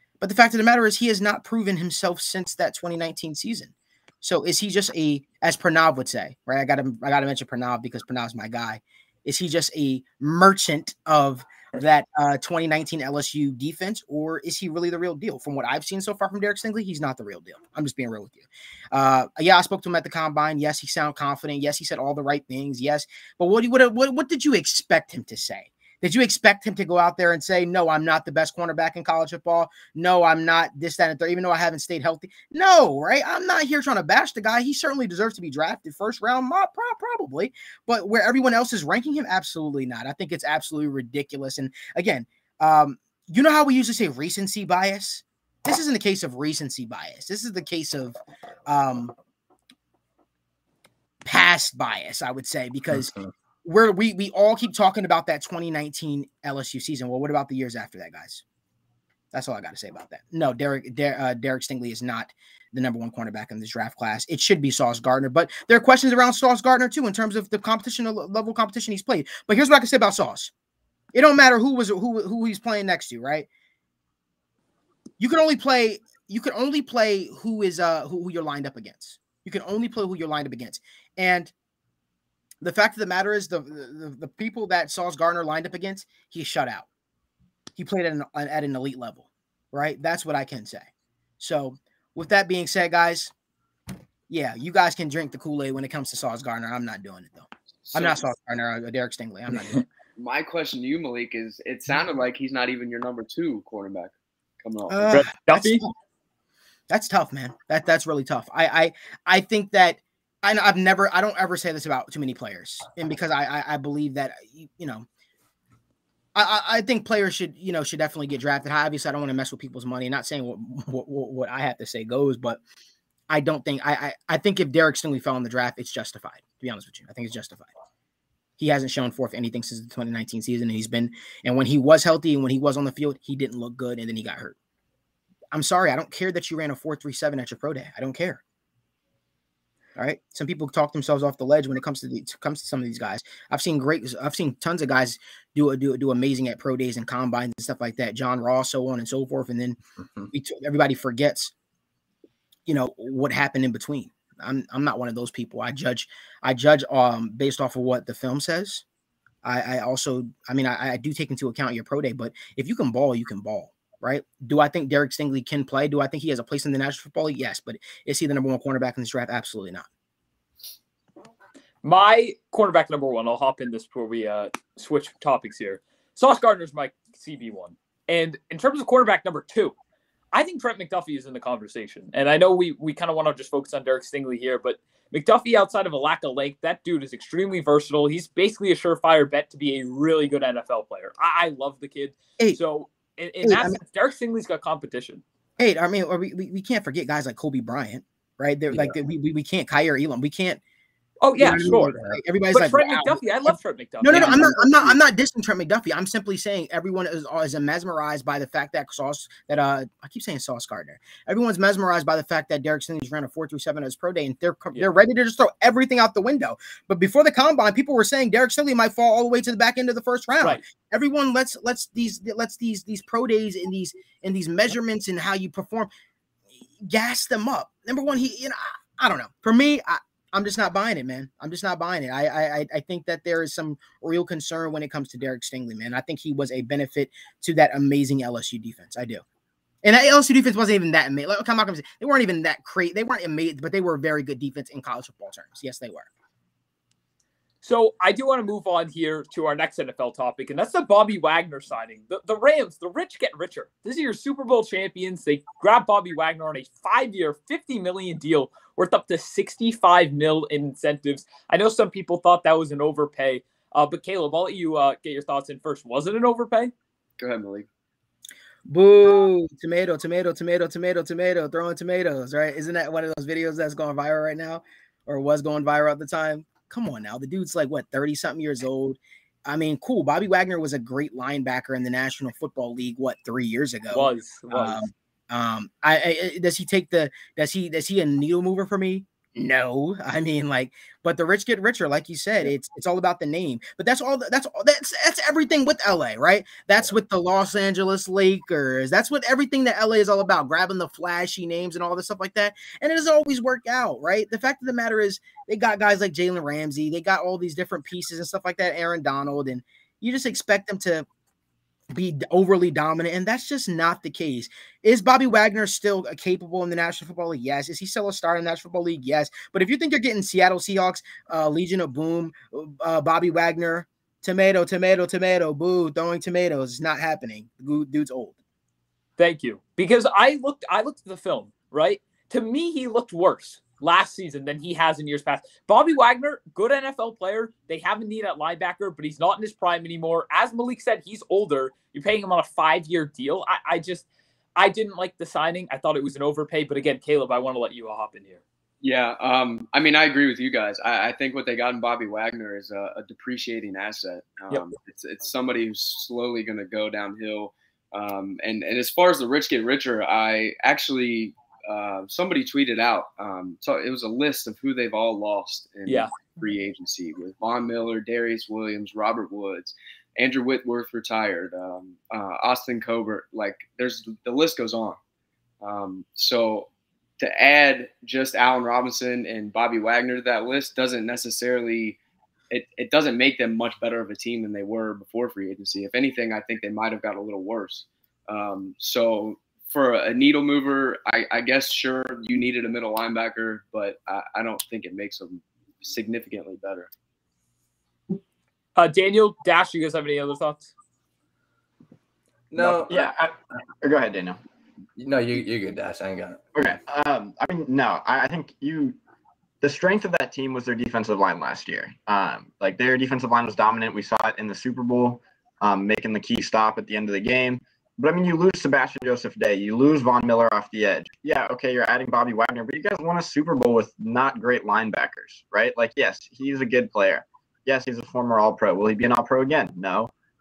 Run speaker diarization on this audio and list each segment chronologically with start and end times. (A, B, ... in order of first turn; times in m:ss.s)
0:00.2-0:49.1 A
0:51.2-0:58.4 A
0:59.3-1:10.5 A
1:11.1-1:13.5 A
1:15.2-1:21.5 A
1:22.6-1:26.9 A
1:27.8-1:30.9 A
1:31.4-1:33.3 A
1:34.3-1:39.8 A
1:37.9-1:38.2 B
1:40.2-1:45.2 B
1:44.9-1:45.9 A
1:45.1-1:45.8 C
1:46.9-1:55.1 A
1:56.4-2:02.6 A
2:03.3-2:07.7 A
2:08.6-2:14.6 A
2:15.5-2:18.4 A
2:20.0-2:29.8 A
2:30.3-2:31.5 A
2:32.7-2:38.8 A
2:39.4-2:49.9 A
2:51.8-2:59.8 C
3:00.3-3:15.2 C
3:13.4-3:13.8 A
3:15.6-3:20.6 A
3:21.2-3:25.0 C
3:21.4-3:45.9 A
3:24.1-3:24.4 D
3:46.8-3:59.2 A
3:59.8-4:06.1 A
4:07.6-4:26.7 C
4:27.2-4:27.7 B
4:28.7-5:11.1 A
4:43.9-4:44.8 C
5:11.9-5:28.4 A
5:29.2-5:44.1 C
5:44.6-5:48.4 C
5:48.8-6:15.0 B
6:05.9-6:06.1 C
6:15.6-6:22.0 B
6:22.5-6:36.9 B
6:38.8-6:40.7 C
6:42.5-6:43.1 D
6:42.6-6:44.4 E
6:45.0-6:46.4 D
6:46.6-6:49.0 E
6:49.6-7:10.1 E